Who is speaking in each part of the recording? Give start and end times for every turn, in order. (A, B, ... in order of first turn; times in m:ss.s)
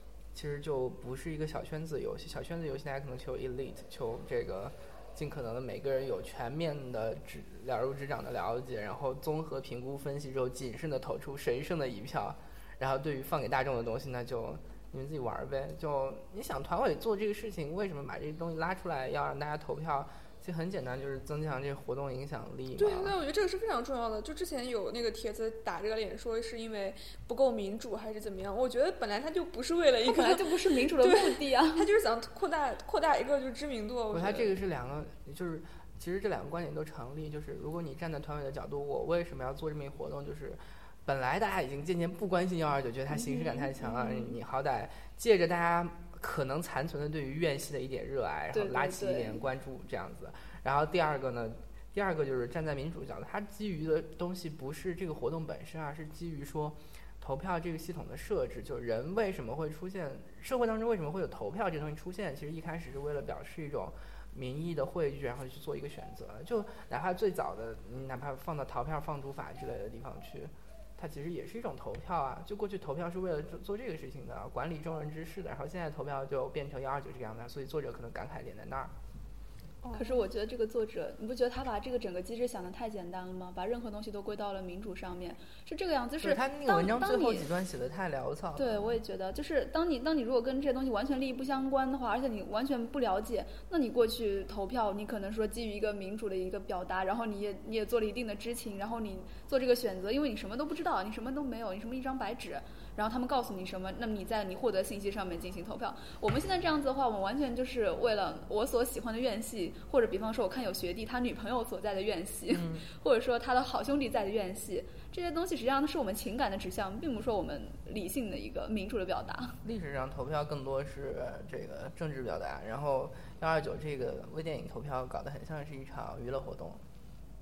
0:00.3-0:23.1 A
0:22.8-0:34.5 B
0:30.1-0:31.9 C
0:34.1-1:18.9 A
0:43.1-0:44.4 C
0:48.5-0:49.4 C
1:19.8-1:20.2 B
1:19.9-1:27.5 C
1:26.2-1:28.7 A
1:28.6-1:59.6 C
1:52.5-1:52.9 A
1:59.6-2:06.8 A